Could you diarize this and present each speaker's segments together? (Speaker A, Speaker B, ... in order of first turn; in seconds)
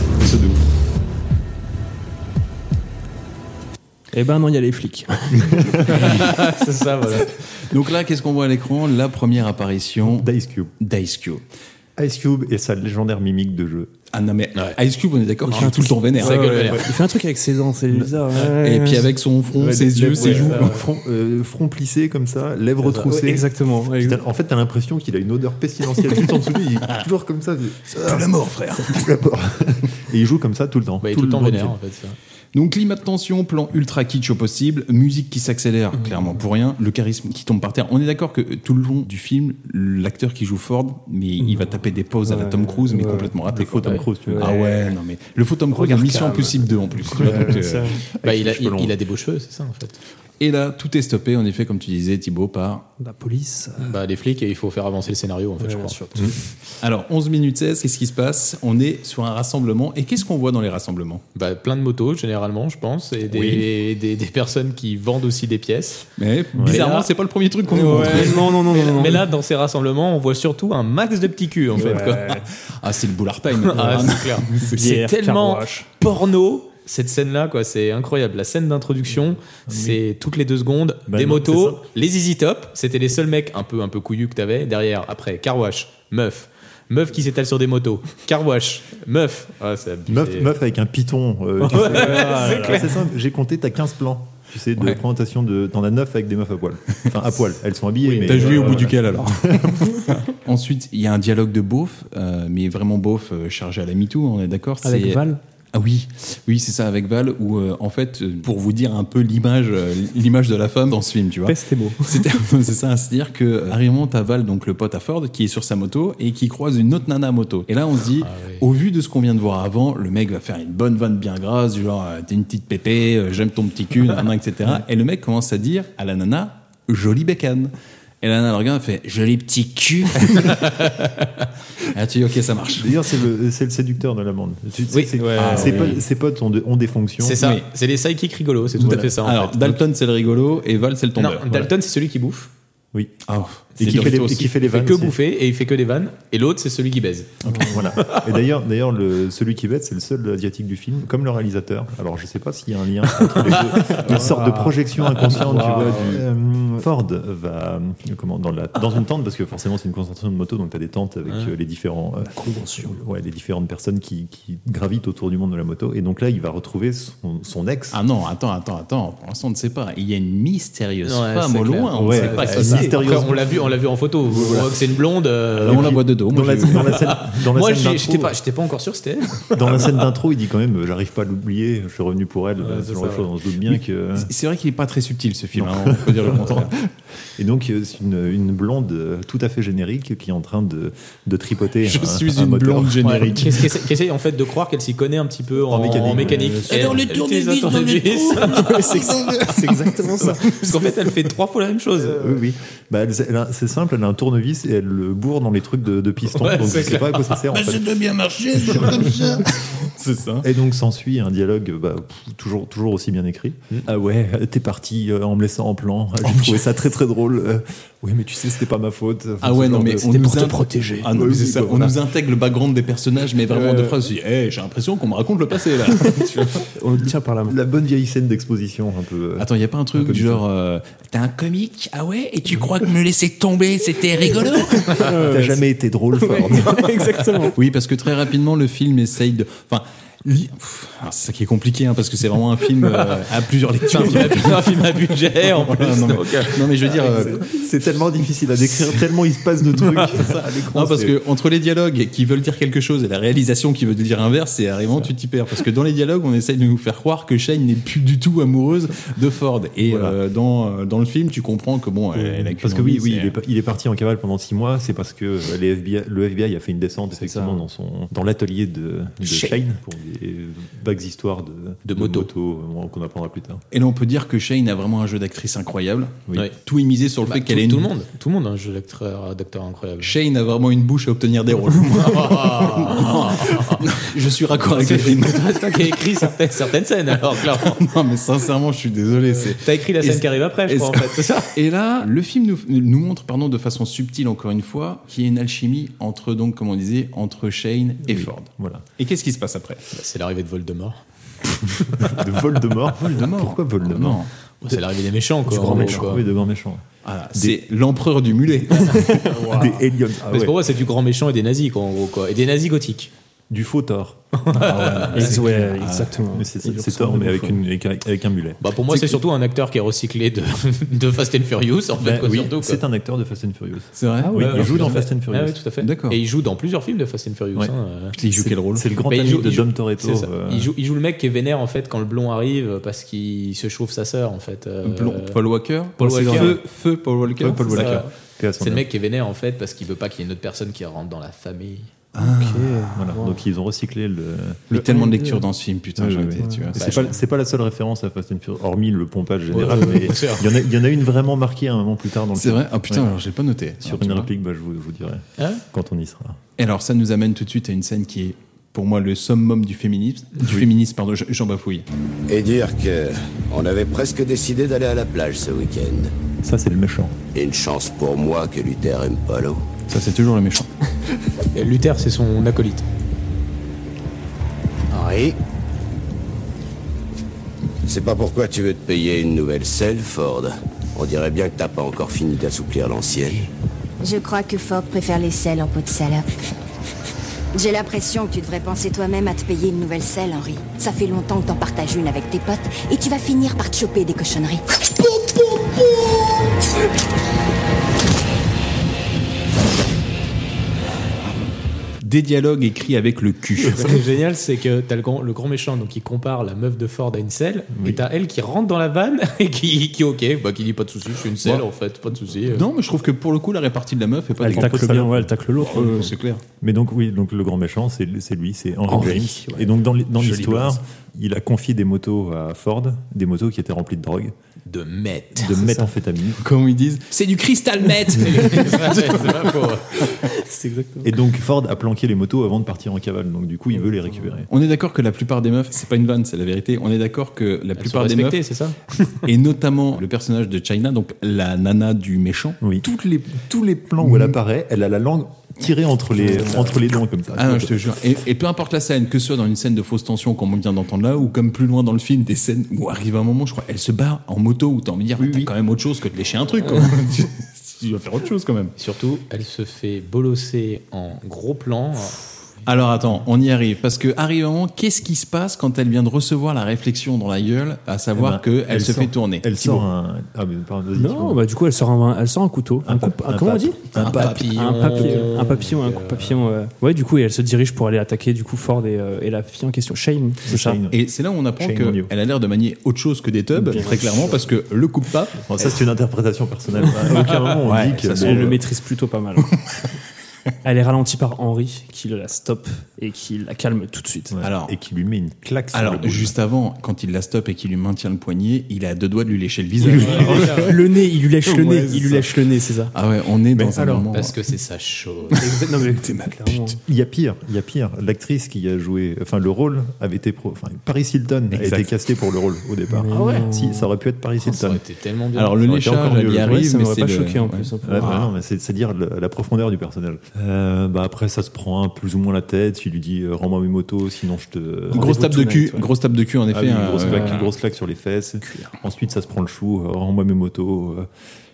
Speaker A: 0.2-0.6, 7.5-10.3, 10.8-11.4, 14.1-16.8, 18.4-20.8, 28.0-29.1, 32.5-47.9, 50.4-52.9, 56.8-61.2, 63.3-63.7, 66.2-68.5, 71.9-74.7, 98.3-130.9, 131.8-133.0, 135.4-136.0, 137.4-137.7, 138.8-141.7, 143.3-144.5, 167.9-173.1, 174.3-174.7, 175.6-177.0, 183.7-186.7, 191.8-193.6, 196.7-200.9, 207.5-210.5, 216.2-216.6, 219.4-226.6, 229.4-235.1, 237.6-247.4, 250.7-263.4, 273.7-277.9, 280.0-286.2, 287.3-299.8, 302.9-304.3, 307.1-309.4, 314.6-316.1, 318.9-319.2, 324.0-324.9, 325.8-326.2, 328.2-328.9, 334.8-338.1, 342.1-342.9, 344.7-347.1, 352.4-354.3, 356.6-361.9, 369.9-370.7, 402.0-404.0, 412.5-415.0, 415.6-416.4, 420.2-420.8, 426.4-430.1, 434.5-438.4, 439.2-442.6, 444.0-444.3, 447.4-458.7, 462.6-469.9, 473.9-474.9, 480.9-485.4, 487.6-488.6, 494.4-494.7, 495.7-500.8, 501.4-502.3, 502.9-504.4, 505.8-506.7, 511.5-511.9, 515.4-518.3, 524.9-527.5
Speaker B: 4.1-5.9, 15.5-19.1, 20.2-20.5, 23.0-24.2, 41.4-41.7, 42.3-43.3, 44.2-44.7, 45.7-48.0, 53.0-53.9, 55.6-56.3, 67.7-69.3, 71.8-72.5, 73.8-74.1, 74.6-75.9, 91.7-92.8, 104.8-105.4, 111.5-112.3, 135.2-135.8, 147.5-147.8, 153.9-156.2, 162.3-163.0, 196.2-196.8, 198.6-199.1, 199.7-200.4, 220.0-221.1, 226.8-227.6, 234.8-235.6, 236.2-237.6, 267.1-267.6, 305.5-306.1, 309.3-309.8, 315.1-317.6, 324.2-324.6, 336.0-336.5, 342.2-343.4, 344.7-345.4, 346.4-346.7, 414.4-416.1, 418.9-419.7, 430.3-431.1, 471.0-480.8, 483.6-484.4, 488.2-489.5, 490.6-494.3, 500.2-502.9, 505.4-506.8, 512.9-513.9, 516.4-518.2, 524.9-525.8, 527.0-527.4
Speaker C: 5.9-7.3, 16.2-16.9, 31.0-32.2, 48.2-50.0, 53.8-56.4, 61.4-66.1, 66.7-67.1, 67.7-72.3, 73.5-90.5, 91.7-92.9, 98.0-98.8, 118.2-118.6, 130.6-131.0, 134.9-136.0, 137.2-139.8, 141.2-142.5, 143.8-147.3, 148.0-148.3, 153.7-154.2, 155.6-155.8, 171.1-176.0, 176.7-180.1, 182.6-183.3, 193.0-202.3, 206.3-207.5, 243.9-247.3, 271.9-272.3, 277.2-280.1, 281.9-283.9, 284.6-287.8, 289.3-291.5, 299.9-301.0, 301.6-302.1, 304.6-306.2, 310.3-313.1, 314.4-315.4, 318.6-322.8, 324.4-328.1, 329.1-335.4, 336.0-336.6, 337.7-338.1, 338.6-341.9, 346.8-347.2, 349.5-350.5, 371.6-372.9, 403.7-412.6, 424.7-425.6, 428.2-430.1, 437.8-439.2, 458.8-462.2, 474.1-476.4, 499.9-500.8, 504.1-505.4, 513.1-513.5, 514.4-516.1
Speaker D: 10.1-10.7, 12.0-13.9, 19.6-31.8, 43.4-44.6, 47.2-47.6, 48.1-49.0, 66.5-66.8, 79.7-80.0, 81.1-81.8, 90.1-100.1, 132.8-137.5, 138.8-139.1, 142.9-143.2, 143.8-145.2, 147.6-168.0, 171.9-173.7, 174.3-174.6, 175.5-178.4, 179.5-184.3, 185.6-186.8, 187.4-193.7, 195.6-197.0, 199.6-200.0, 202.0-208.0, 208.5-209.4, 210.4-220.1, 221.1-222.0, 227.5-230.4, 235.0-237.0, 246.8-251.2, 259.9-260.2, 262.1-273.6, 298.1-298.9, 302.0-304.2, 305.6-307.6, 308.8-310.6, 313.5-314.6, 315.3-318.6, 322.0-325.6, 327.6-330.7, 337.3-338.9, 343.0-344.9, 346.0-353.1, 353.8-356.4, 366.4-367.1, 407.8-408.0, 414.4-415.3, 416.6-424.3, 425.4-426.4, 431.0-434.5, 442.6-447.8, 455.2-455.5, 468.1-471.4, 472.8-474.3, 480.4-481.0, 481.6-482.1, 485.5-488.6, 494.3-496.3, 503.5-504.1, 506.9-514.8, 515.8-516.6, 517.8-525.5, 526.5-531.1
Speaker E: 362.3-366.1, 367.3-369.6, 374.9-375.4, 377.8-383.5
Speaker F: 384.0-386.3, 387.5-394.6